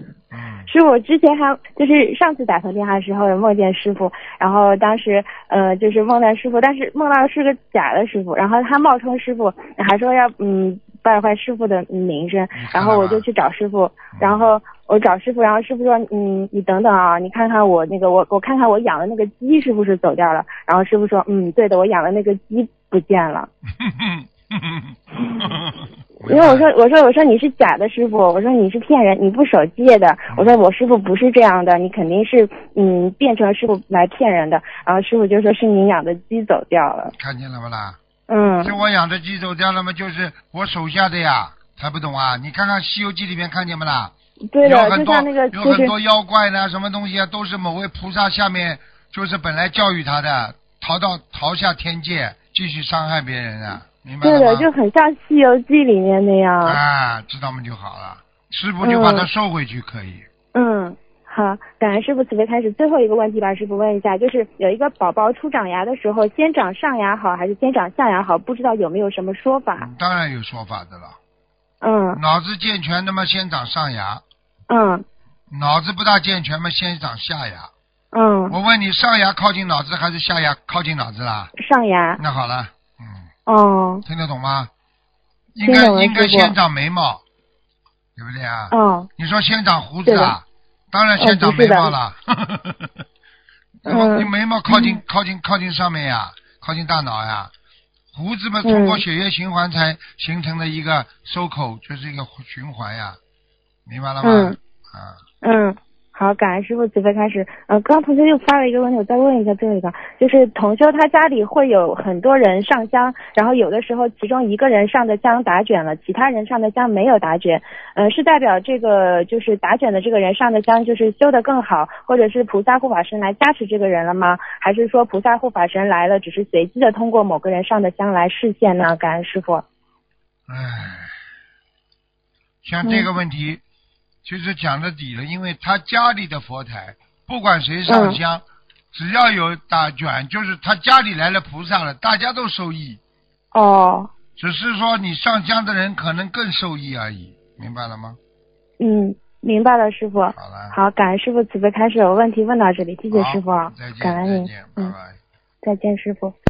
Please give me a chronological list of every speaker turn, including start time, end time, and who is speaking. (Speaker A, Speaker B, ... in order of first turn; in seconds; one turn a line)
Speaker A: 0.3-0.7
Speaker B: 0.7-23.5
Speaker A: 12.6-13.3
Speaker A: 14.2-14.5
Speaker A: 23.8-25.7
Speaker A: 26.2-26.7
Speaker B: 26.2-37.1
Speaker A: 30.3-30.6
Speaker A: 37.1-38.0
Speaker B: 38.3-38.8
Speaker A: 38.6-54.7
Speaker B: 44.5-45.9
Speaker B: 54.2-56.8
Speaker A: 56.6-60.2
Speaker B: 58.8-59.3
Speaker B: 60.5-69.9
Speaker A: 69.8-71.2
Speaker B: 71.8-72.2
Speaker A: 72.1-74.2
Speaker B: 74.7-75.0
Speaker A: 75.5-77.7
Speaker B: 78.1-78.6
Speaker A: 78.5-81.5
Speaker B: 81.6-82.2
Speaker A: 82.2-83.2
Speaker B: 83.5-84.0
Speaker A: 84.0-84.7
Speaker A: 85.5-87.2
Speaker B: 85.7-86.5
Speaker A: 88.2-93.0
Speaker B: 88.7-89.1
Speaker B: 90.1-90.4
Speaker B: 91.2-91.9
Speaker A: 93.8-97.5
Speaker B: 93.9-95.0
Speaker A: 98.1-103.2
Speaker B: 98.6-99.0
Speaker A: 103.9-105.2
Speaker B: 104.2-104.6
Speaker B: 105.4-129.7
Speaker A: 130.5-131.2
Speaker A: 132.6-133.6
Speaker A: 134.2-143.0
Speaker B: 137.9-138.2
Speaker B: 143.5-144.1
Speaker A: 144.4-148.2
Speaker B: 148.8-154.9
Speaker A: 150.4-150.8
Speaker A: 153.1-155.2
Speaker B: 155.6-156.4